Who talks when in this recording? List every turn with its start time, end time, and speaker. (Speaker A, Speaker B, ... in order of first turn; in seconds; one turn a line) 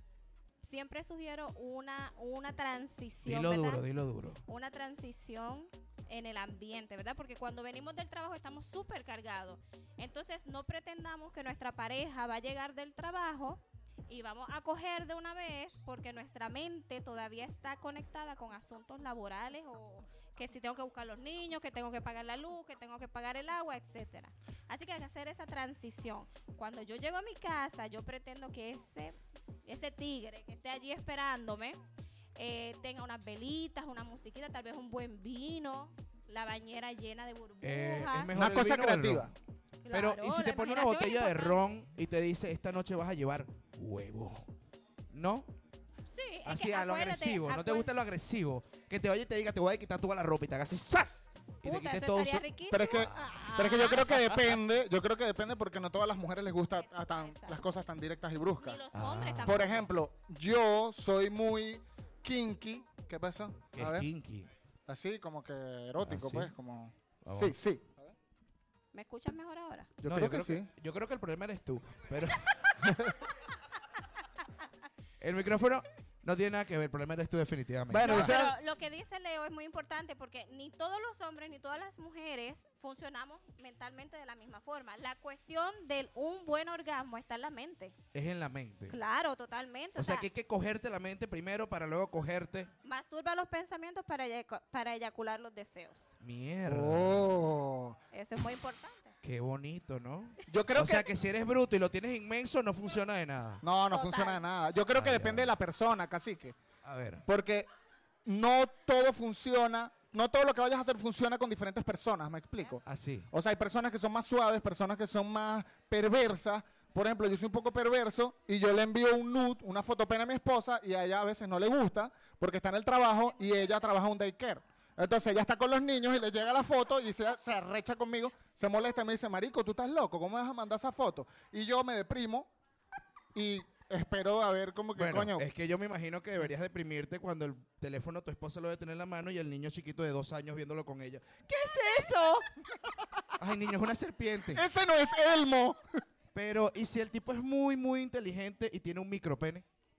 Speaker A: 0.6-3.8
Speaker B: 3.2-4.4
Speaker A: 4.5-31.8
Speaker A: 32.4-38.3
Speaker B: 37.6-39.3
Speaker C: 38.3-39.3
Speaker A: 39.8-41.6
Speaker B: 39.9-44.5
Speaker B: 45.1-45.5
Speaker A: 46.1-47.9
Speaker B: 46.5-53.3
Speaker A: 51.6-54.0
Speaker C: 52.7-58.8
Speaker B: 53.9-54.6
Speaker A: 56.8-57.6
Speaker A: 58.6-59.8
Speaker B: 58.9-59.9
Speaker C: 59.5-64.1
Speaker B: 63.7-64.5
Speaker C: 64.9-68.1
Speaker B: 66.0-66.5
Speaker B: 67.2-67.5
Speaker A: 68.9-69.9
Speaker B: 70.0-72.9
Speaker C: 70.0-70.7
Speaker B: 75.2-78.4
Speaker C: 77.9-78.5
Speaker A: 78.0-88.0
Speaker B: 88.1-89.0
Speaker A: 88.9-90.3
Speaker B: 90.0-92.7
Speaker A: 92.8-96.1
Speaker B: 96.2-97.4
Speaker C: 96.7-98.0
Speaker A: 98.1-99.2
Speaker B: 99.2-103.6
Speaker C: 100.5-101.1
Speaker C: 103.6-106.6
Speaker A: 103.9-104.4
Speaker B: 104.9-105.5
Speaker B: 106.8-107.2
Speaker C: 107.3-107.7
Speaker C: 108.3-132.5
Speaker B: 112.8-113.3
Speaker C: 133.3-135.5
Speaker B: 135.0-142.5
Speaker B: 143.4-144.6
Speaker C: 144.5-145.8
Speaker B: 146.3-149.6